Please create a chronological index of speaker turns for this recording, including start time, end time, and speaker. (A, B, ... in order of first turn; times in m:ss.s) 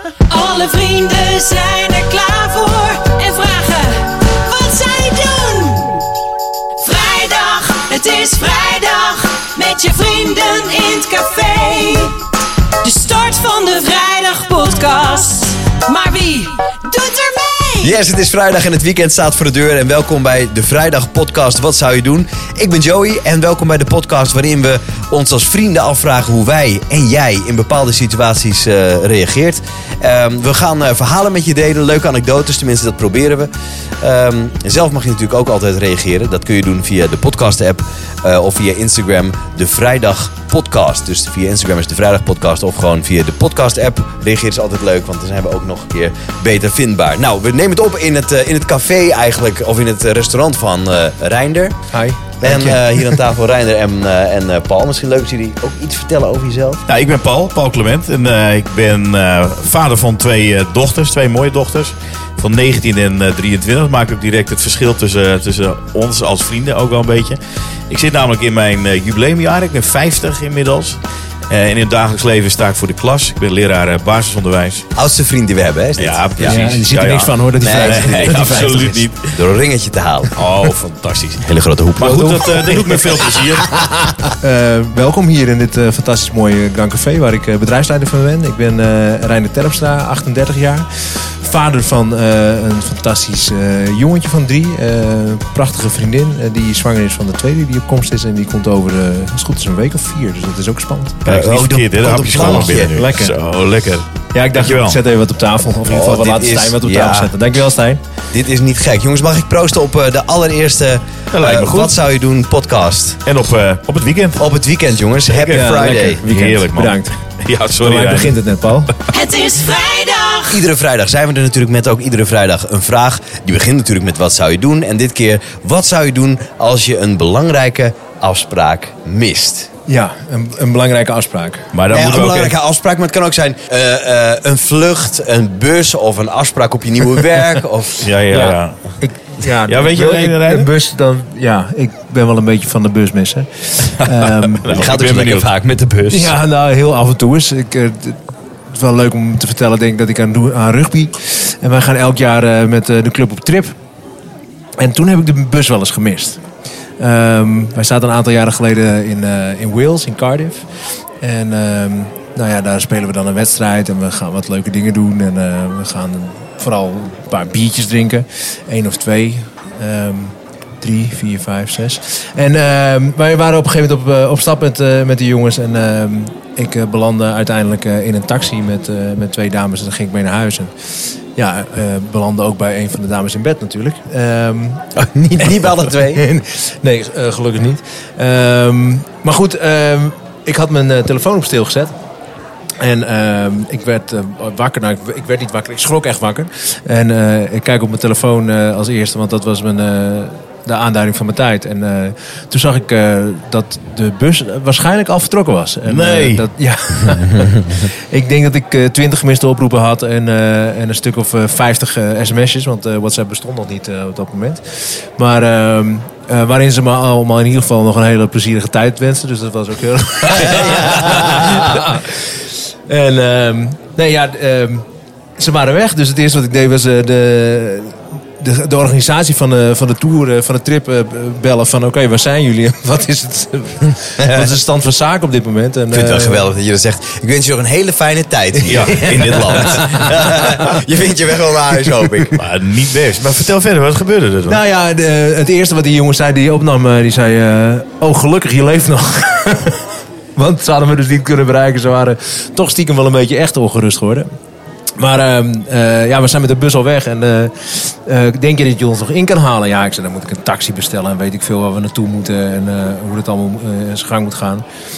0:00.3-0:06.0 A
0:06.8-0:12.2 A
0:12.8-0:17.9 A
0:17.8-0:51.8 B
0:51.9-0:53.2 C
0:52.4-0:56.8 B
0:56.9-1:07.4 D
1:07.9-1:11.0 D
1:11.5-1:14.8 D
1:14.9-1:16.6 B
1:16.0-1:19.4 D
1:16.4-1:19.1 C
1:17.6-1:18.2 B
1:19.3-1:20.4 B
1:20.3-1:21.4 D
1:21.4-1:22.8 B
1:22.0-1:23.9 D
1:22.0-1:23.0 C
1:24.2-1:41.3 C
1:41.2-1:43.0 B
1:41.2-1:45.0 D
1:42.3-1:43.3 C
1:44.3-1:48.0 C
1:45.8-1:47.3 B
1:48.3-1:53.2 B
1:51.3-1:52.0 D
1:53.2-1:54.5 D
1:54.4-1:56.2 B
1:55.3-1:55.7 D
1:55.5-1:57.2 C
1:56.2-1:58.4 D
1:57.8-1:58.9 C
1:59.1-2:00.6 A
2:00.5-2:09.7 B
2:09.9-2:11.7 C
2:11.7-2:12.5 D
2:11.9-2:18.6 B
2:18.0-2:18.8 D
2:18.3-2:24.8 C
2:19.6-2:20.7 D
2:24.2-2:25.5 D
2:24.7-2:26.4 B
2:26.1-2:28.2 C
2:28.7-2:33.7 C
2:34.8-2:36.4 C
2:37.0-2:40.6 C
2:41.2-3:00.7 C
3:01.3-3:11.9 C
3:05.2-3:06.2 B
3:12.8-3:42.2 C
3:25.9-3:26.4 D
3:42.9-3:44.8 C
3:45.4-3:56.5 C
3:54.2-3:54.5 B
3:55.9-4:02.4 B
3:58.6-4:00.0 D
3:58.7-4:00.4 C
4:02.4-4:04.6 D
4:04.5-4:09.8 C
4:10.4-4:14.3 C
4:15.0-4:24.6 C